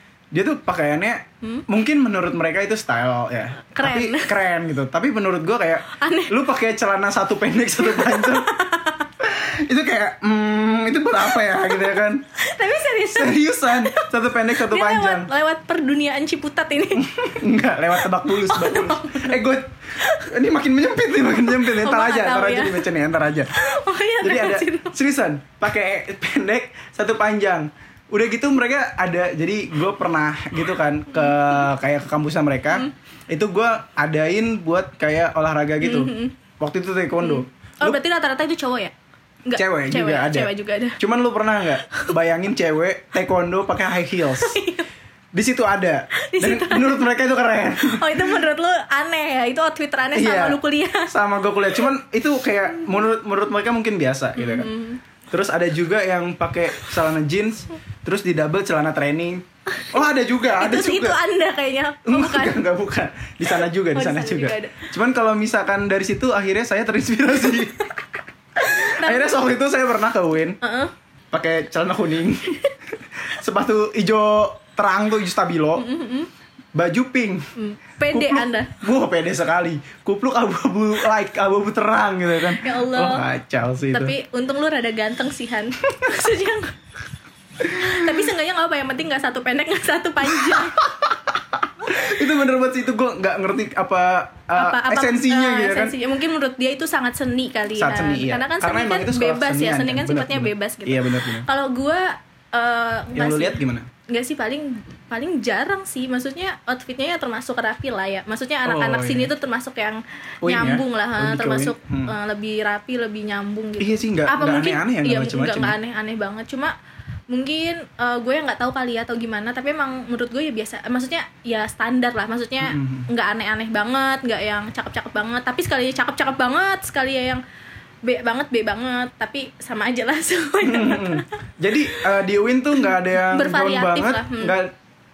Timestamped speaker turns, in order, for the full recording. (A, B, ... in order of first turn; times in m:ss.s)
0:00.3-0:08.5 A
0:03.7-0:04.4 B
0:05.9-0:06.4 B
0:07.8-0:09.1 B
0:09.2-0:12.2 A
0:11.3-0:11.8 B
0:12.4-0:17.0 B
0:13.1-0:15.3 A
0:17.0-0:23.5 A
0:18.2-0:19.4 B
0:20.0-0:20.3 B
0:21.4-0:22.9 B
0:23.5-0:25.0 B
0:24.2-0:38.0 A
0:31.1-0:31.6 B
0:35.8-0:36.3 B
0:37.2-0:38.9 B
0:39.4-0:41.0 B
0:39.5-0:44.6 A
0:44.4-0:44.9 B
0:45.3-0:48.4 A
0:46.2-0:47.1 B
0:47.8-0:51.1 B
0:50.1-0:54.7 A
0:54.4-0:55.0 B
0:55.3-1:01.2 A
1:00.6-1:02.6 B
1:02.0-1:07.9 A
1:03.9-1:04.8 B
1:08.6-1:10.6 A
1:08.6-1:09.4 B
1:10.6-1:10.9 B
1:11.3-1:12.6 A
1:13.3-1:15.9 A
1:15.8-1:16.3 B
1:16.7-1:17.5 A
1:17.6-1:18.7 B
1:18.1-1:24.1 A
1:22.6-1:23.2 B
1:23.9-1:26.7 B
1:27.6-1:28.3 A
1:27.6-1:30.8 B
1:30.3-1:36.0 A
1:34.5-1:56.7 B
1:37.8-1:41.5 A
1:43.1-1:43.9 A
1:48.6-1:49.3 A
1:50.4-1:52.1 A
1:53.8-1:55.8 A
1:57.3-2:07.4 B
2:02.6-2:03.0 A
2:08.0-2:11.3 B
2:10.6-2:14.7 A
2:13.1-2:14.6 B